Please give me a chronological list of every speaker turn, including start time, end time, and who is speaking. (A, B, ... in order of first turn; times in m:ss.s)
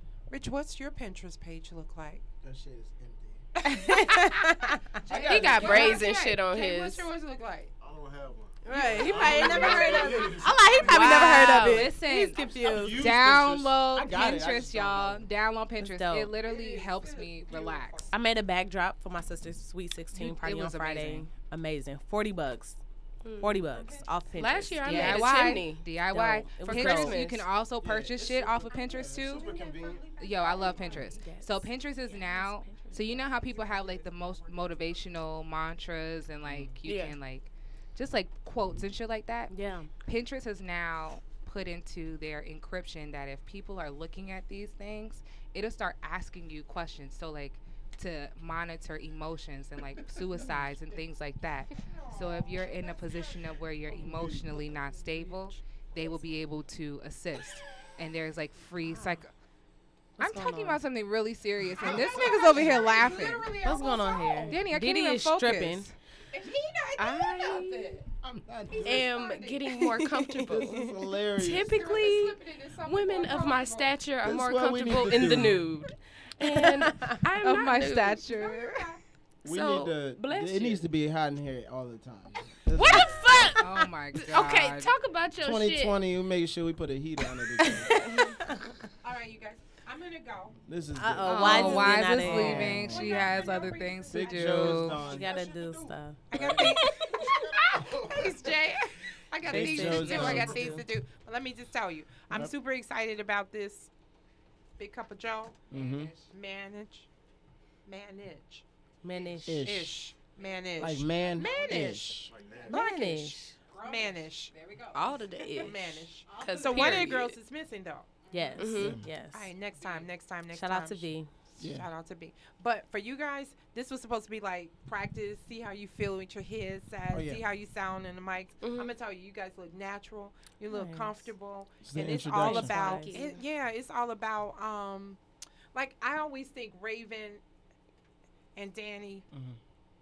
0:00.3-0:02.2 A
0:02.4-0:03.4 B
0:03.6-0:05.0 C
0:03.6-0:07.7 A
0:05.1-0:06.0 B
0:05.1-0:07.1 D
0:07.8-0:10.7 E
0:08.6-0:13.1 C
0:08.7-0:11.4 A
0:09.4-0:09.8 B
0:10.8-0:11.9 D
0:10.8-0:18.1 F
0:12.3-0:12.6 A
0:12.6-0:15.3 B
0:15.8-0:16.3 C
0:16.4-0:18.2 A
0:18.1-0:22.8 C
0:20.1-0:21.3 F
0:23.2-0:23.6 D
0:23.4-0:25.5 C
0:23.7-0:24.1 A
0:24.4-0:25.9 D
0:24.8-0:29.5 F
0:26.1-0:27.2 C
0:26.6-0:27.5 D
0:27.8-0:30.1 B
0:28.7-0:31.3 A
0:30.2-0:59.3 F
0:30.9-0:33.3 C
0:33.1-0:35.0 A
0:36.4-0:36.8 B
0:36.8-0:37.2 D
0:39.5-0:39.9 C
0:51.8-0:56.2 A
1:00.2-1:00.8 C
1:00.2-1:03.5 F
1:01.8-1:04.7 A
1:03.6-1:05.9 C
1:04.5-1:05.9 F
1:06.3-1:08.0 A
1:07.0-1:08.0 D
1:08.2-1:09.1 B
1:08.7-1:09.9 A
1:08.8-1:18.2 D
1:09.7-1:10.9 C
1:10.4-1:11.8 B
1:11.5-1:14.0 A
1:14.2-1:15.6 B
1:16.4-1:17.2 C
1:17.4-1:18.9 F
1:18.2-1:19.0 A
1:19.4-1:23.5 B
1:19.4-1:20.8 D
1:22.7-1:26.0 D
1:23.6-1:24.9 F
1:25.4-1:28.2 B
1:27.6-1:28.7 C
1:27.8-1:28.4 D
1:29.0-1:30.6 A
1:30.6-1:33.3 B
1:31.0-1:33.0 C
1:31.2-1:35.0 F
1:31.5-1:43.9 A
1:34.1-1:35.3 B
1:35.0-1:36.7 C
1:36.3-1:36.8 B
1:39.4-1:40.9 B
1:39.5-1:40.8 C
1:39.9-1:40.4 F
1:44.8-1:45.6 A
1:45.7-1:46.1 B
1:45.7-1:46.3 F
1:46.2-1:47.1 A
1:47.9-1:54.6 A
1:49.0-1:49.8 C
1:49.5-1:50.0 B
1:50.8-1:52.3 B
1:52.3-1:52.8 E
1:52.6-1:53.6 C
1:53.7-1:55.7 F
1:54.9-1:57.4 D
1:55.5-1:58.6 A
1:56.3-1:57.2 F
1:58.3-1:59.5 C
1:58.6-1:59.0 D
1:58.8-1:59.1 B
1:59.3-2:15.2 A
2:00.5-2:01.3 C
2:01.6-2:01.9 B
2:07.1-2:07.4 B
2:08.6-2:09.0 D
2:10.7-2:11.3 C
2:11.8-2:12.7 B
2:12.3-2:13.2 C
2:12.6-2:13.4 D
2:15.7-2:17.4 A
2:18.6-2:19.3 A
2:19.3-2:19.6 B